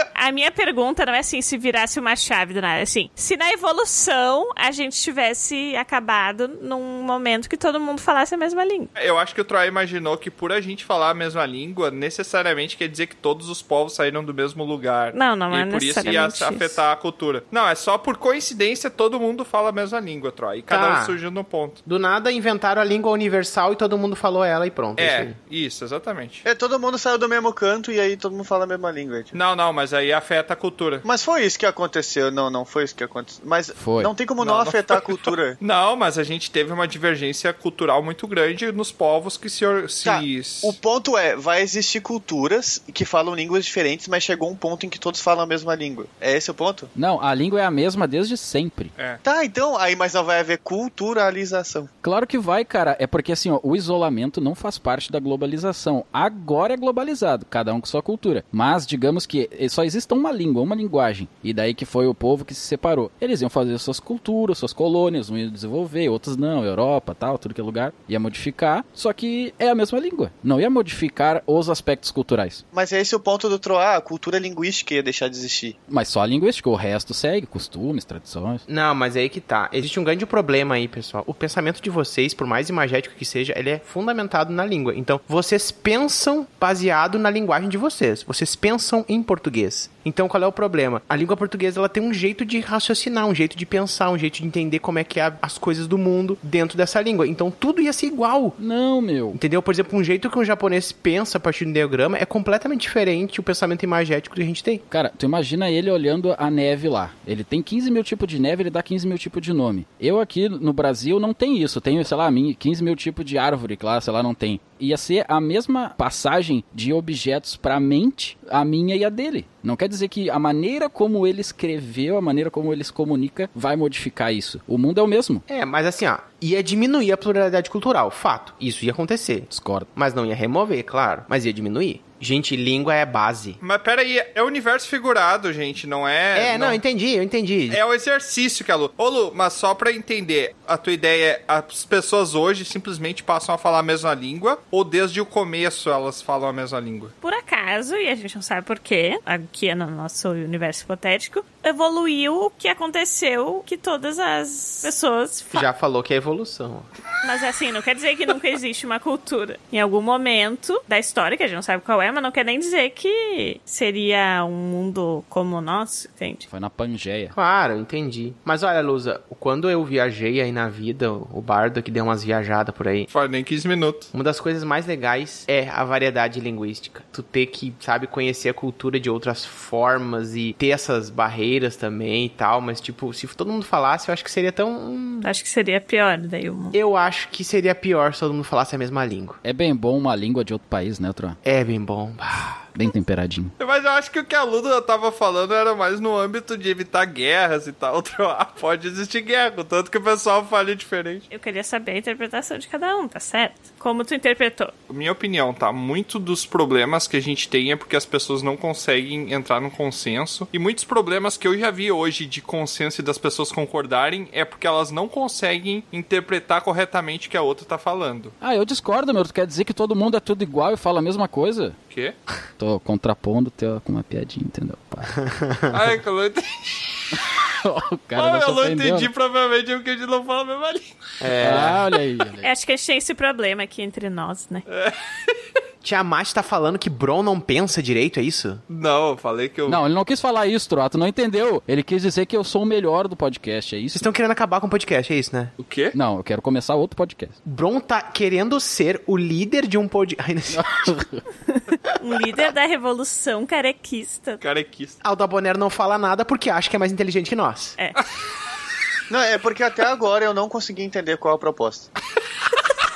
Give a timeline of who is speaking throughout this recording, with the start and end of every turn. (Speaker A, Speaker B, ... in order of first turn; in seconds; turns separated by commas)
Speaker A: 0.1-8.9, Speaker B: 8.9-21.8, Speaker A: 15.1-16.8, Speaker C: 20.7-21.2, Speaker C: 21.9-25.3, Speaker B: 25.0-26.4, Speaker D: 26.4-29.3, Speaker B: 29.3-31.1, Speaker D: 31.0-35.6, Speaker E: 33.7-34.1, Speaker B: 34.4-40.8, Speaker D: 40.0-46.9, Speaker E: 46.9-48.9, Speaker D: 49.2-51.9, Speaker E: 52.0-72.6, Speaker D: 72.7-75.8, Speaker E: 75.9-78.6, Speaker C: 78.7-98.6, Speaker E: 98.6-99.4, Speaker C: 99.3-104.8, Speaker E: 104.9-125.4, Speaker C: 125.5-133.6, Speaker E: 129.5-129.9, Speaker B: 133.6-136.8, Speaker C: 136.3-137.8, Speaker B: 137.7-147.1, Speaker A: 147.2-155.7, Speaker C: 155.5-156.9, Speaker A: 157.2-166.4, Speaker E: 166.5-167.3, Speaker C: 167.3-173.1, Speaker B: 173.1-174.1, Speaker C: 174.1-185.2, Speaker A: 185.2-186.8, Speaker C: 186.7-189.4, Speaker E: 189.4-191.4, Speaker C: 191.4-192.7, Speaker E: 192.7-193.5, Speaker B: 193.6-201.2, Speaker A: 201.3-204.7, Speaker B: 204.9-218.3, Speaker E: 218.4-221.8, Speaker E: 222.6-225.1, Speaker C: 225.2-225.8, Speaker B: 225.7-227.2, Speaker E: 227.1-229.1, Speaker B: 228.1-230.9, Speaker C: 231.2-231.9, Speaker E: 231.4-232.5, Speaker A: 232.4-234.6, Speaker B: 234.7-235.4, Speaker C: 235.8-238.6, Speaker B: 238.7-239.8, Speaker E: 239.7-244.1, Speaker C: 243.9-245.5, Speaker B: 245.6-245.9, Speaker E: 245.9-247.4, Speaker C: 247.4-250.9, Speaker E: 250.5-251.2, Speaker A: 251.5-254.4, Speaker B: 254.4-255.0, Speaker C: 255.0-257.8, Speaker D: 259.1-261.9